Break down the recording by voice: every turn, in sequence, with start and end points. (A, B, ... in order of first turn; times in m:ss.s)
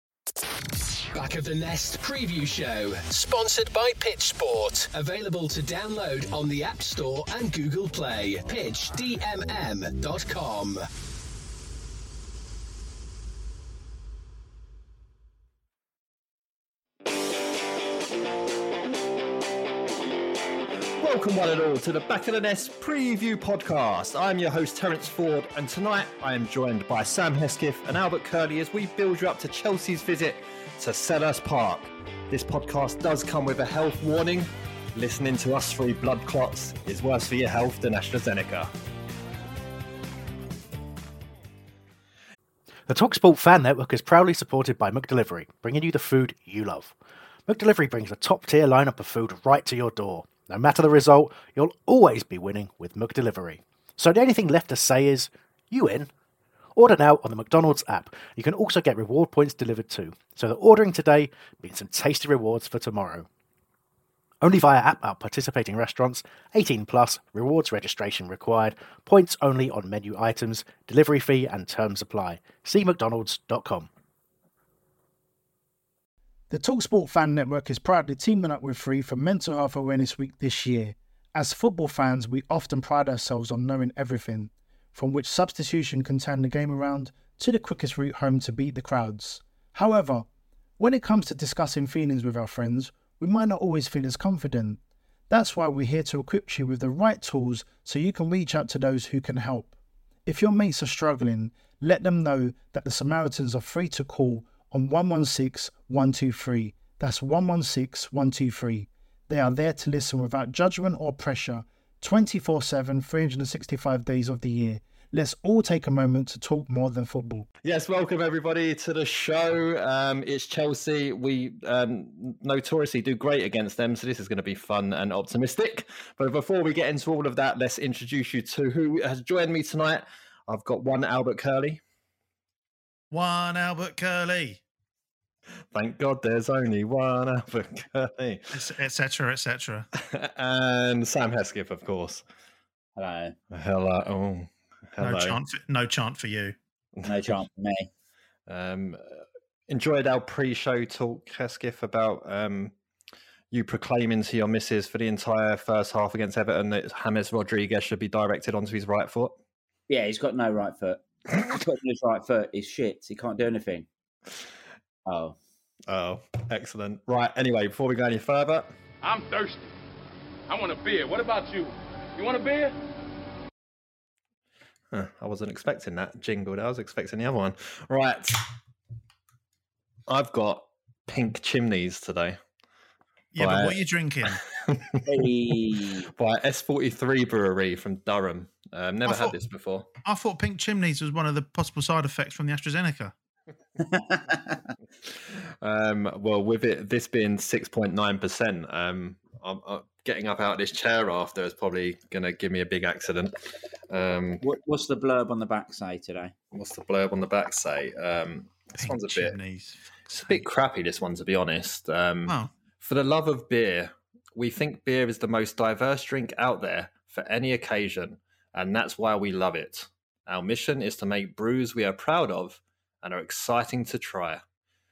0:01.1-0:10.8 A
0:21.0-0:38.7 B
0:42.9-0:47.0 C
0:47.5-0:56.1 C
0:56.7-1:03.3 C
1:04.4-1:13.9 C
1:16.5-1:30.2 D
1:30.8-1:39.7 D
1:40.2-1:57.5 D
1:57.6-2:11.8 B
2:13.1-2:14.6 E
2:15.7-2:18.6 B
2:18.5-2:19.9 E
2:20.0-2:22.2 B
2:23.0-2:23.4 F
2:23.5-2:25.4 B
2:25.0-2:26.6 E
2:27.0-2:27.3 B
2:27.0-2:27.9 F
2:28.5-2:32.7 B
2:33.5-2:39.4 B
2:39.9-2:43.9 F
2:45.0-2:45.4 F
2:45.9-2:48.7 B
2:49.0-2:49.7 G
2:50.5-2:52.8 G
2:54.9-2:58.4 B
3:00.1-3:02.4 B
3:03.3-3:04.4 E
3:03.4-3:05.3 B
3:05.0-3:06.1 F
3:06.0-3:09.9 B
3:09.0-3:09.3 E
3:10.0-3:13.1 E
3:13.8-3:14.6 F
3:15.0-3:23.3 B
3:23.9-3:24.4 B
3:24.4-3:26.3 F
3:26.5-3:29.4 B
3:28.8-3:30.4 E
3:30.1-3:44.4 B